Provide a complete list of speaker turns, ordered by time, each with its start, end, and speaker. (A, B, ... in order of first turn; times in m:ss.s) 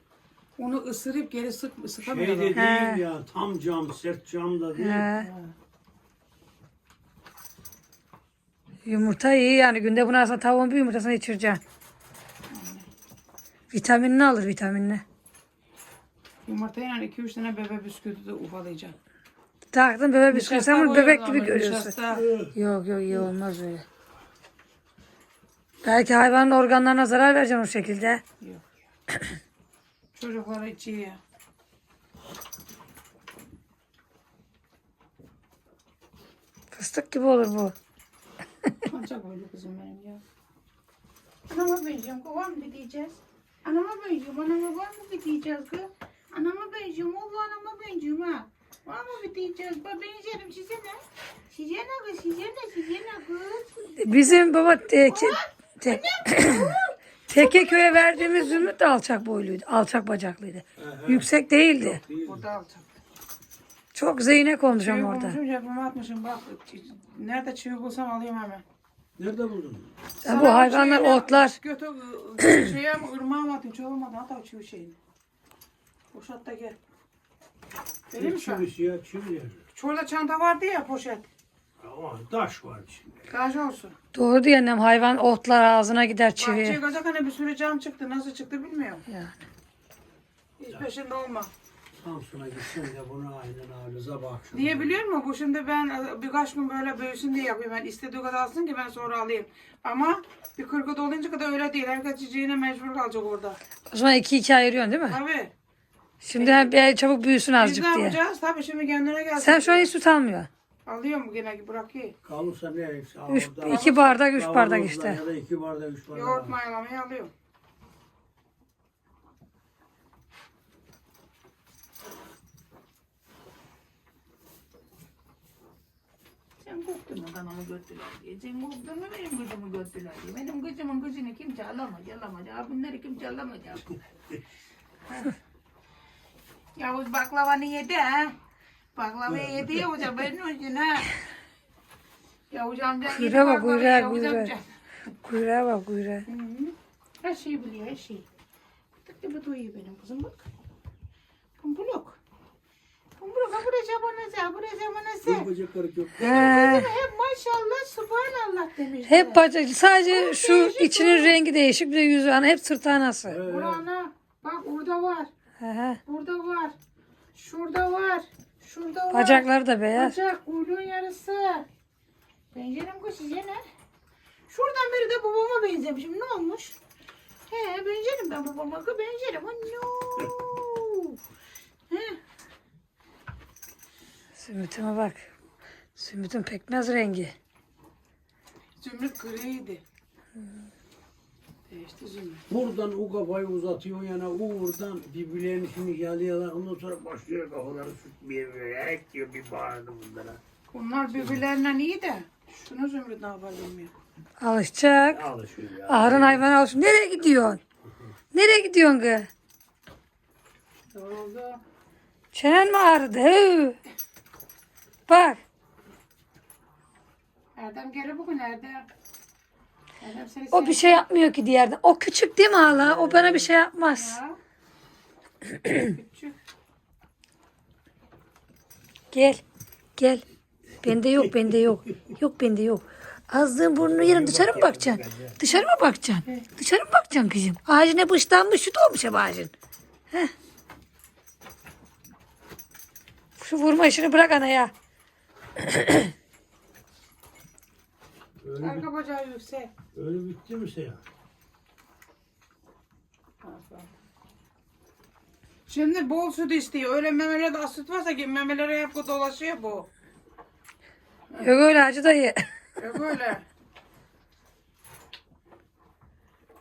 0:00.6-0:02.6 A
0:02.0-0:05.1 B
0:02.6-0:03.0 C
0:04.8-0:05.3 C
0:05.1-0:05.5 A
0:08.8-0:11.6 C
0:12.5-0:12.8 A
0:13.7-0:15.0 C
0:16.4-0:19.0 A
0:19.7-0:21.9 C
0:20.3-0:22.3 A
0:22.1-0:22.5 B
0:22.5-0:23.8 C
0:25.8-0:28.2 C
0:28.4-0:28.8 A
0:30.1-0:31.2 A
0:36.7-0:37.7 C
0:38.8-0:40.2 A
0:41.5-0:58.7 A
0:54.0-0:56.8 C
0:57.3-1:02.0 C
1:00.8-1:02.4 B
1:02.2-1:03.0 A
1:03.9-1:05.4 C
1:04.7-1:08.6 A
1:09.2-1:09.9 B
1:10.2-1:11.5 C
1:10.2-1:15.0 A
1:12.4-1:12.7 C
1:16.1-1:16.8 A
1:18.1-1:18.6 A
1:18.1-1:19.6 B
1:19.7-1:21.3 A
1:21.8-1:23.2 B
1:23.3-1:24.0 A
1:24.1-1:26.8 C
1:26.4-1:29.0 A
1:29.1-1:29.3 C
1:30.6-1:31.5 A
1:31.9-1:35.0 B
1:34.5-1:43.6 A
1:43.9-1:45.2 C
1:45.1-1:45.5 A
1:46.2-1:48.2 C
1:46.3-1:46.7 A
1:47.6-1:49.9 A
1:49.4-1:50.5 C
1:50.8-1:52.1 A
1:52.2-1:56.5 B
1:53.3-1:55.2 C
1:53.6-1:54.2 A
1:56.1-1:57.3 A
2:06.6-2:14.0 A
2:15.1-2:15.3 A
2:16.8-2:18.3 A
2:18.9-2:21.1 A
2:19.3-2:19.8 B
2:22.5-2:24.7 A
2:23.1-2:24.5 C
2:25.2-2:26.2 C
2:26.2-2:28.3 A
2:29.0-2:30.4 A
2:31.6-2:32.2 A
2:33.2-2:35.5 A
2:35.2-2:36.9 B
2:36.2-2:36.9 C
2:36.2-2:39.4 A
2:39.1-2:43.4 C
2:40.0-2:41.3 A
2:43.2-2:43.8 B
2:43.4-2:45.3 A
2:45.6-2:46.0 C
2:46.0-2:46.8 A
2:47.3-2:51.6 A
2:49.1-2:50.2 C
2:52.5-2:53.6 A
2:54.5-2:56.8 A
2:57.5-3:01.2 A
3:01.9-3:02.2 A
3:04.4-3:05.3 C
3:06.0-3:07.3 C
3:08.8-3:09.8 A
3:11.7-3:12.4 A
3:12.5-3:20.4 B
3:20.7-3:23.9 A
3:24.4-3:25.2 C
3:25.0-3:26.4 B
3:25.9-3:27.6 C
3:28.3-3:29.3 C
3:30.9-3:31.6 A
3:32.3-3:33.8 C
3:35.1-3:35.4 C
3:37.6-3:38.9 A
3:40.0-3:41.0 A
3:40.5-3:44.2 C
3:42.7-3:43.5 B
3:43.9-3:44.4 A
3:45.7-3:46.3 A
3:49.1-3:49.4 C
3:50.0-3:50.2 C
3:50.8-3:59.5 C
3:53.8-3:55.4 B
4:03.4-4:04.7 C
4:05.6-4:06.1 C
4:08.4-4:08.9 B
4:08.6-4:09.7 A
4:09.9-4:11.0 B
4:13.4-4:13.9 A
4:15.7-4:19.9 A
4:21.4-4:22.4 C
4:22.8-4:23.4 A